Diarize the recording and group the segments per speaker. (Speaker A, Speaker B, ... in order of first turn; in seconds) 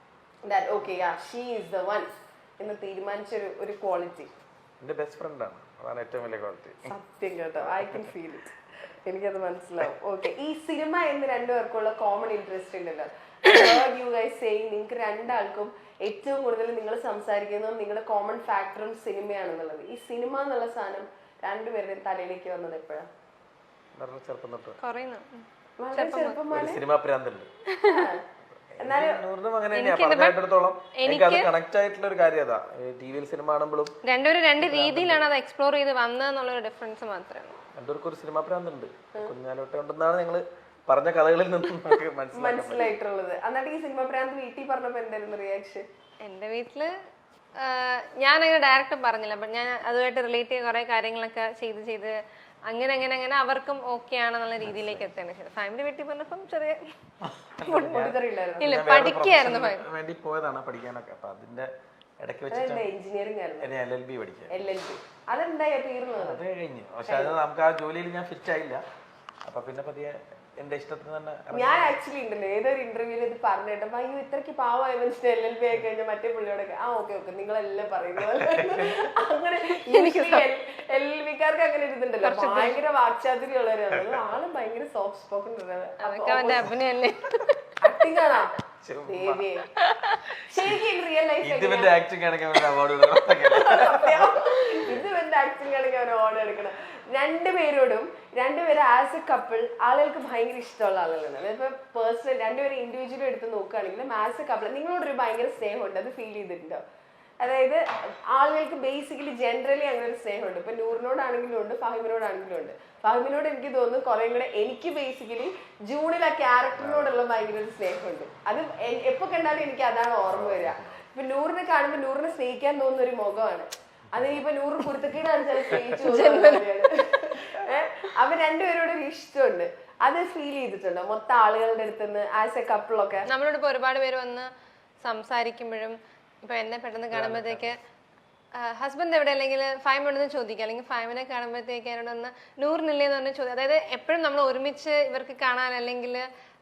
Speaker A: 0.4-4.3, 6.8-23.1, 25.8-26.8, 27.8-28.2, 28.8-29.2, 42.3-45.8, 57.7-58.8, 62.5-63.7, 64.5-66.4, 67.0-67.3, 71.5-86.8, 87.8-88.5, 89.1-89.7, 90.5-92.0, 93.5-106.8, 107.4-133.3
Speaker B: 4.8-6.9, 7.6-8.1, 23.9-24.8, 26.5-27.5, 28.7-33.9, 34.6-35.2, 37.7-42.9, 54.6-55.1, 57.2-61.7, 62.2-62.9, 63.6-64.5, 66.2-68.8, 69.4-72.0, 78.2-79.1, 83.9-84.4, 88.8-89.5, 90.5-90.8, 91.4-95.0, 116.8-117.1, 120.3-121.0, 124.1-124.4, 125.6-126.0, 137.1-137.7
Speaker C: 24.8-26.4, 27.7-28.1, 29.7-30.4, 31.0-31.5, 34.0-37.5, 46.2-46.9, 47.6-52.1, 52.7-56.8, 57.6-59.8, 79.7-80.5, 82.2-82.8, 86.0-87.7, 89.8-90.2, 126.0-126.7, 133.3-134.5, 135.0-137.8, 138.6-146.2